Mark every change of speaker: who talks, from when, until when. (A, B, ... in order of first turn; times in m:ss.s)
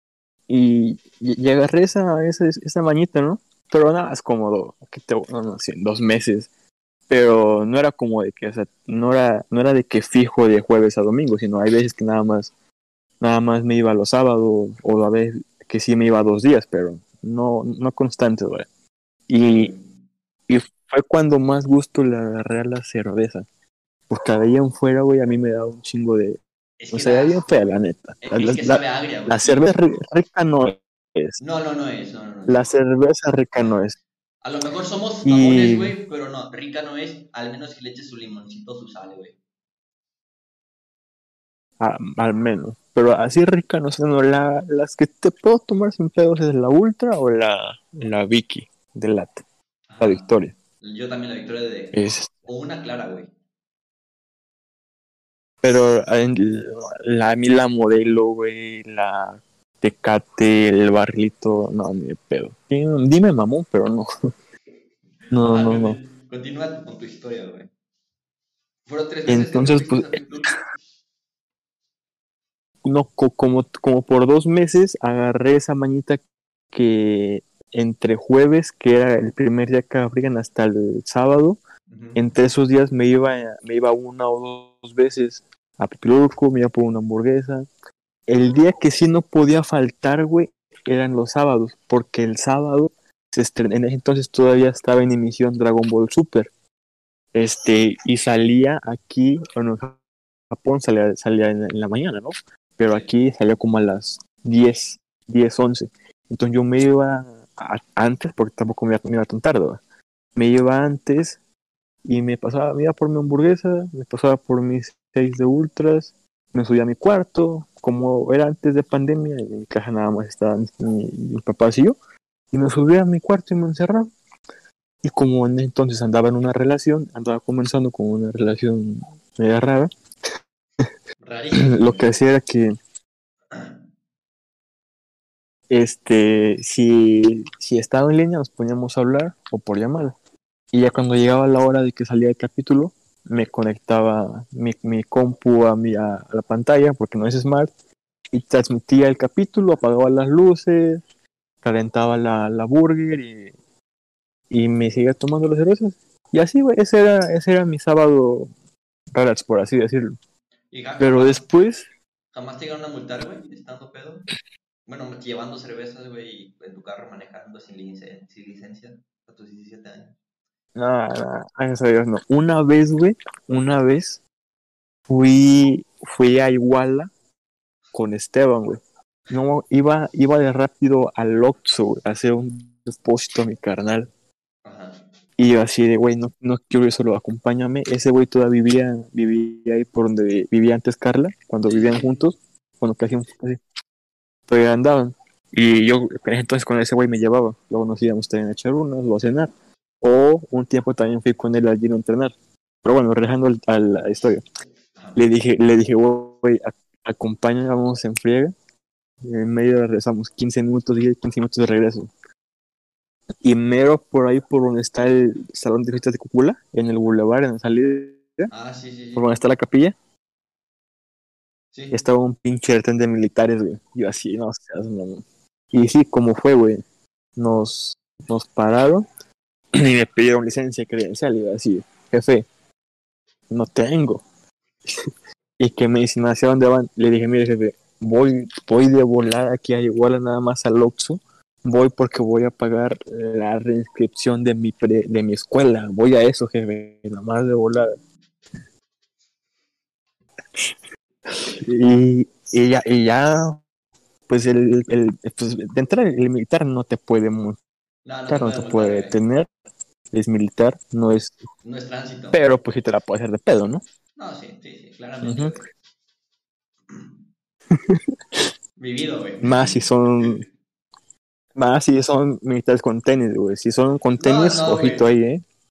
0:00.5-0:06.5 A
0:07.1-0:12.5 A
0:13.2-0:18.7 A
0:19.3-0:19.7 A
0:19.4-0:19.9 B
0:20.5-0:23.4 A
0:24.1-0:31.4 A
0:26.8-0:27.6 B
0:28.2-0:29.7 B
0:31.4-0:32.7 B
0:32.5-0:34.0 A
0:34.4-0:39.4 B
0:35.2-0:35.9 A
0:41.8-0:49.4 A
0:49.9-0:53.3 B
0:50.0-0:50.5 A
0:51.9-0:52.3 A
0:55.6-1:04.1 A
1:05.3-1:06.0 A
1:05.4-1:07.7 B
1:08.8-1:10.5 B
1:09.3-1:10.2 A
1:12.8-1:16.2 A
1:16.7-1:21.6 A
1:21.9-1:22.2 B
1:22.2-1:27.7 A
1:28.3-1:36.5 A
1:37.3-1:40.0 A
1:40.5-1:49.8 A
1:42.8-1:43.1 B
1:50.4-1:51.4 A
1:52.0-2:02.0 A
2:02.5-2:04.1 A
2:05.0-2:09.9 A
2:11.2-2:12.1 B
2:11.6-2:12.7 A
2:15.7-2:20.1 A
2:20.7-2:27.7 A
2:28.3-2:31.0 A
2:31.6-2:33.5 A
2:34.5-2:38.5 A
2:39.1-2:40.1 A
2:40.7-2:41.4 B
2:41.0-2:41.8 A
2:42.3-2:44.3 B
2:44.8-2:50.1 B
2:50.7-2:54.2 A
2:55.1-2:57.1 A
2:57.9-2:58.8 A
2:59.3-3:04.1 A
3:04.6-3:05.0 B
3:05.4-3:13.6 A
3:11.7-3:12.2 B
3:14.5-3:19.5 A
3:20.0-3:24.4 A
3:25.2-3:28.5 A
3:29.2-3:32.1 A
3:33.4-3:38.5 A
3:38.5-3:39.3 B
3:39.1-3:39.9 A
3:41.7-3:42.0 B
3:41.9-3:46.8 A
3:47.4-3:49.1 A
3:49.7-3:52.4 A
3:53.5-3:54.2 A
3:55.6-4:07.9 A
4:11.3-4:13.6 A
4:14.3-4:17.6 A
4:18.0-4:19.1 B
4:18.3-4:19.5 A
4:20.1-4:21.4 A
4:21.6-4:22.4 B
4:22.3-4:23.8 A
4:24.2-4:25.6 B
4:25.2-4:25.5 A
4:28.8-4:29.8 B
4:29.4-4:30.4 A
4:31.6-4:35.4 A
4:34.2-4:35.0 B